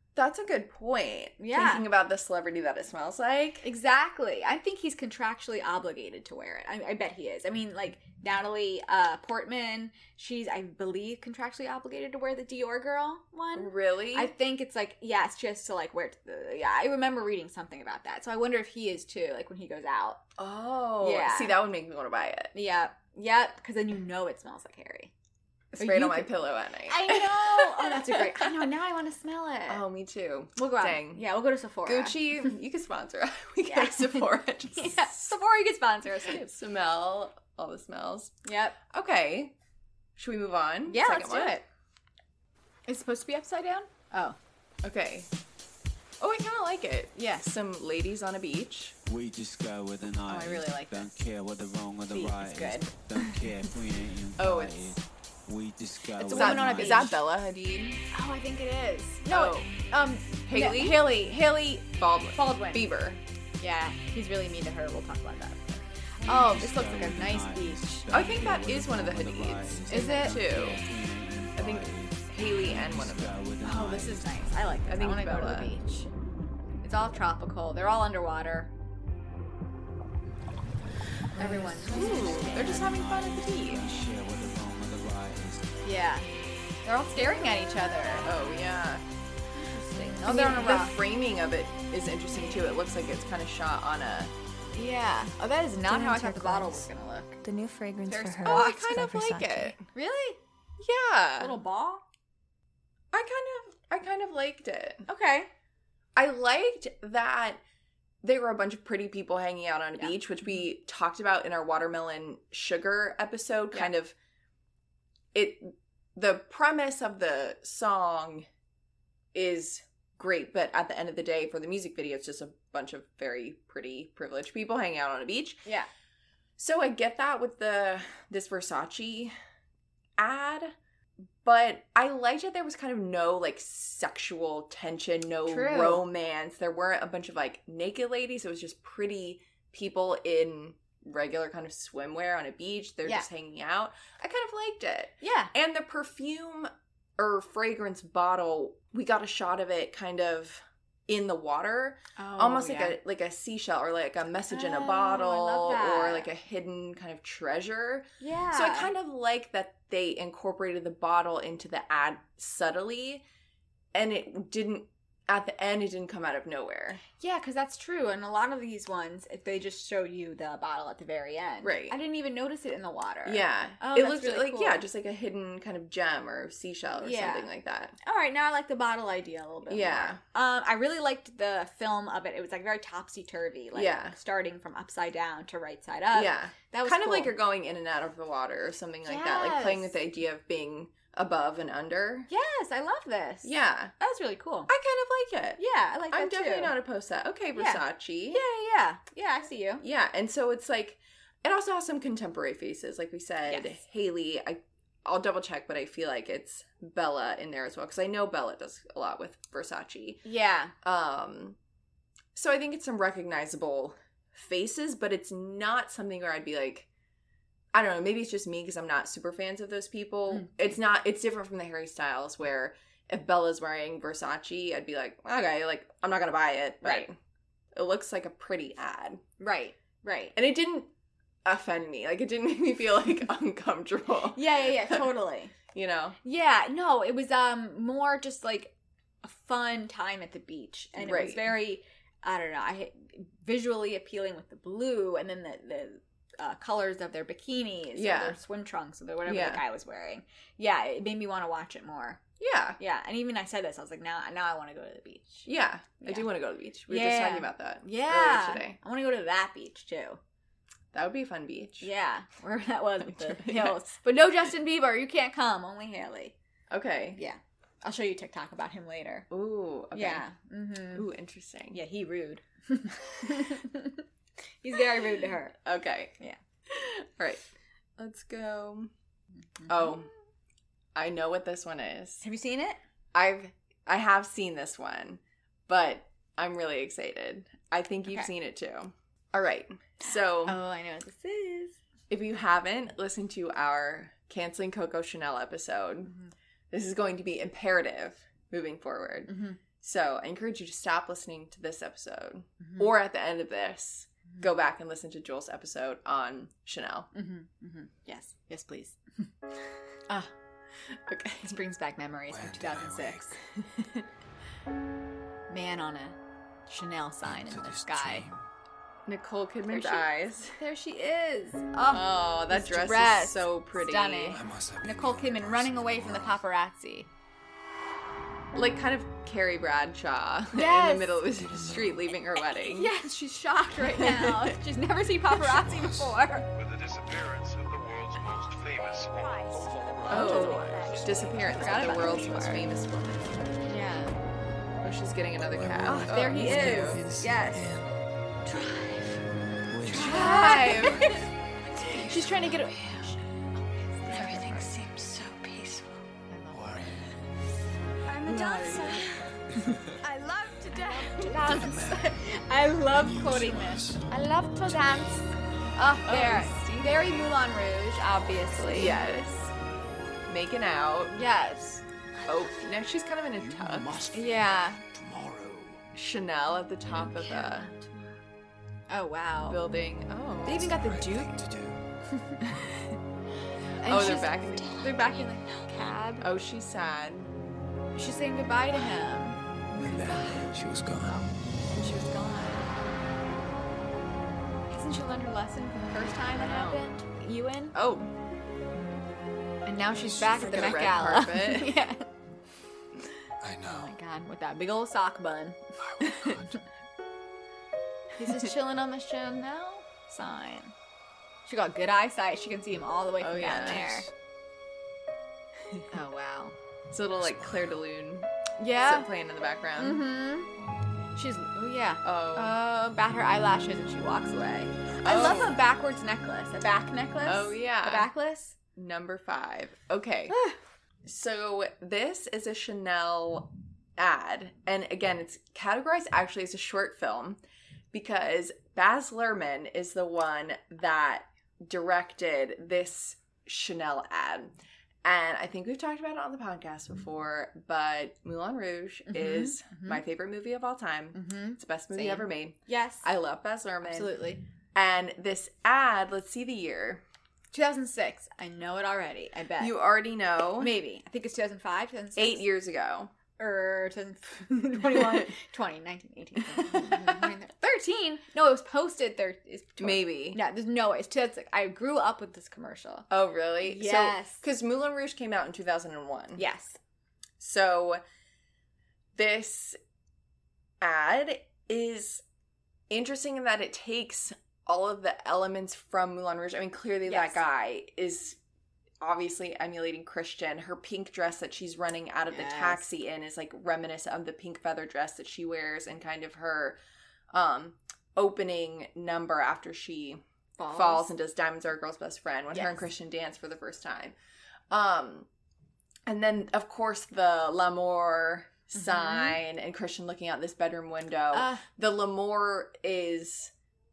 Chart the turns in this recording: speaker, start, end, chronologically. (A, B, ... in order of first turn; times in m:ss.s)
0:00.2-0:03.7 A
0:01.4-0:01.8 B
0:03.6-0:20.2 B
0:13.5-0:14.3 A
0:20.4-0:22.5 A
0:21.0-0:21.6 B
0:22.5-0:25.1 B
0:25.7-0:26.4 B
0:25.8-0:28.7 A
0:26.9-0:29.8 B
0:29.7-0:31.2 A
0:30.6-0:32.4 B
0:31.8-0:35.4 A
0:33.7-0:36.5 B
0:36.3-0:38.4 A
0:38.4-0:38.8 B
0:38.9-0:39.5 A
0:40.2-0:41.6 A
0:40.9-0:41.6 B
0:42.9-0:44.4 B
0:44.8-0:45.3 A
0:46.2-0:49.0 A
0:47.2-0:47.5 B
0:49.1-0:57.2 C
0:50.3-0:51.2 B
0:52.1-0:53.3 B
0:54.4-0:55.0 A
0:56.2-0:57.2 B
0:56.3-0:58.0 A
0:58.1-1:01.5 B
0:59.3-0:59.7 A
1:00.4-1:03.2 A
1:02.4-1:02.9 B
1:03.6-1:08.1 B
1:06.3-1:14.5 C
1:08.1-1:10.8 A
1:09.9-1:10.4 B
1:11.6-1:13.4 A
1:13.6-1:16.1 B
1:14.9-1:15.7 A
1:16.8-1:18.7 B
1:21.4-1:22.9 B
1:21.4-1:24.1 A
1:21.5-1:25.8 C
1:25.8-1:26.3 B
1:26.8-1:28.3 B
1:28.2-1:29.0 A
1:29.5-1:31.0 B
1:30.2-1:34.3 A
1:34.7-1:37.5 B
1:35.9-1:36.9 D
1:37.4-1:39.8 D
1:38.1-1:40.4 B
1:38.4-1:39.8 A
1:40.8-1:41.5 A
1:41.4-1:42.0 B
1:43.1-1:45.1 A
1:45.1-1:45.5 B
1:46.2-1:47.6 A
1:48.2-1:54.1 A
1:55.3-1:58.5 A
1:59.3-2:05.7 A
2:06.6-2:09.4 A
2:10.2-2:10.8 A
2:11.4-2:43.2 A
2:15.5-2:16.0 B
2:25.2-2:25.5 B
2:32.2-2:33.0 B
2:34.5-2:36.3 B
2:38.2-2:38.9 B
2:43.9-2:47.0 A
2:47.2-2:54.8 B
2:51.6-2:52.0 A
2:53.2-2:58.0 A
2:57.0-2:57.5 B
2:58.0-3:07.3 B
2:59.7-3:00.2 A
3:03.7-3:04.2 A
3:06.1-3:12.3 A
3:09.0-3:10.0 B
3:12.3-3:14.7 B
3:13.4-3:14.0 A
3:14.7-3:15.6 A
3:15.6-3:16.8 B
3:16.1-3:18.4 A
3:17.6-3:19.8 B
3:19.8-3:30.2 A
3:23.5-3:23.8 B
3:30.2-3:30.7 B
3:30.8-3:31.6 A
3:32.4-3:36.9 A
3:37.7-3:47.2 A
3:40.3-3:40.8 B
3:47.7-3:49.2 A
3:49.4-3:50.4 B
3:50.4-3:50.9 A
3:51.4-3:55.1 A
3:54.3-3:55.6 B
3:55.7-3:56.2 A
3:56.2-4:12.2 B
4:01.0-4:01.5 A
4:08.0-4:08.4 A
4:09.3-4:09.6 A
4:12.4-4:12.8 A
4:12.8-4:15.5 B
4:15.4-4:18.8 A
4:16.0-4:16.3 B
4:16.9-4:20.2 B
4:20.9-4:21.9 A
4:21.8-4:26.3 B
4:23.2-4:23.8 A
4:26.7-4:27.2 A
4:27.2-4:29.3 B
4:29.3-4:30.2 A
4:30.0-4:31.1 B
4:30.9-4:31.8 A
4:31.7-4:34.0 B
4:34.6-4:35.6 B
4:35.6-4:36.2 A
4:36.7-4:37.4 A
4:38.0-4:38.9 A
4:39.6-4:40.0 B
4:39.7-4:40.1 A
4:41.0-4:42.2 A
4:42.2-4:42.8 B
4:43.1-4:50.6 A
4:50.5-4:51.8 B
4:52.1-4:56.1 A
4:56.7-5:07.1 A
4:59.3-4:59.6 B
5:02.6-5:02.9 B
5:07.1-5:09.3 B
5:11.1-5:11.6 A
5:11.4-5:13.4 B
5:12.3-5:13.3 E
5:13.6-5:14.0 A
5:15.5-5:18.3 B
5:17.2-5:18.4 E
5:19.1-5:20.6 A
5:19.7-5:27.1 B
5:21.9-5:24.4 A
5:24.3-5:26.4 E
5:28.6-5:32.9 A
5:30.5-5:31.8 B
5:31.3-5:32.1 E
5:32.4-5:36.5 B
5:33.9-5:34.5 A
5:35.3-5:36.3 E
5:36.5-5:40.1 F
5:38.2-5:42.7 B
5:40.1-5:42.3 E
5:40.1-5:43.5 A
5:43.6-5:44.2 B
5:44.8-5:47.1 A
5:45.5-5:47.9 E
5:45.9-5:47.7 B
5:48.5-5:49.2 B
5:49.7-5:51.0 E
5:49.8-5:57.2 B
5:49.9-5:51.3 A
5:54.1-5:54.7 A
5:56.5-5:57.3 E
5:58.0-6:09.0 B
5:58.3-5:59.1 A
5:59.5-5:59.9 E
6:00.9-6:01.7 A
6:01.2-6:02.3 E
6:02.8-6:05.2 E
6:06.0-6:07.3 A
6:08.6-6:09.5 A
6:10.3-6:11.1 A
6:11.1-6:12.6 B
6:12.3-6:13.9 A
6:13.4-6:15.8 E
6:14.1-6:14.8 B
6:15.9-6:17.7 A
6:16.9-6:18.2 B
6:18.9-6:19.7 B
6:19.4-6:20.7 A
6:20.5-6:21.4 B
6:20.5-6:21.8 E
6:22.1-6:22.9 B
6:23.8-6:26.3 B
6:23.8-6:25.3 A
6:26.2-6:27.3 A
6:28.0-6:32.9 B
6:29.7-6:31.7 E
6:34.7-6:37.8 B
6:36.3-6:36.8 A
6:37.7-6:38.1 A
6:39.7-6:42.1 B
6:40.0-6:41.1 E
6:40.1-6:41.8 A
6:43.4-6:44.0 E
6:43.7-6:46.6 B
6:46.1-6:46.3 A
6:48.2-6:50.7 B
6:51.5-6:54.1 B
6:53.2-6:54.0 A
6:55.9-6:56.6 B
6:56.9-7:00.0 A
6:58.6-6:59.1 B
6:59.8-7:00.5 B
7:01.2-7:08.6 B
7:02.0-7:02.6 A
7:05.0-7:05.6 A
7:07.2-7:08.1 A
7:08.8-7:10.4 A
7:10.3-7:10.6 B
7:11.0-7:17.4 A
7:17.9-7:34.1 A
7:29.1-7:30.0 B
7:31.1-7:33.1 B
7:33.8-7:34.4 B
7:34.8-7:37.0 A
7:37.5-7:39.8 B
7:39.6-7:40.7 A
7:40.6-7:42.4 B
7:42.2-7:43.1 A
7:43.4-7:53.1 B
7:44.9-7:45.3 A
7:46.5-7:47.3 A
7:49.8-7:50.4 A
7:53.1-7:56.4 A
7:53.6-7:54.4 B
7:56.4-7:56.8 B
7:57.4-7:58.0 A
7:59.2-7:59.8 A
8:00.8-8:02.2 A
8:02.9-8:08.4 A
8:07.1-8:07.4 B
8:09.0-8:16.8 A
8:12.3-8:12.9 B
8:17.3-8:24.2 A
8:20.6-8:21.1 B
8:22.5-8:22.9 B
8:24.7-8:25.3 A
8:26.1-8:33.5 A
8:28.8-8:29.4 B
8:31.3-8:31.6 B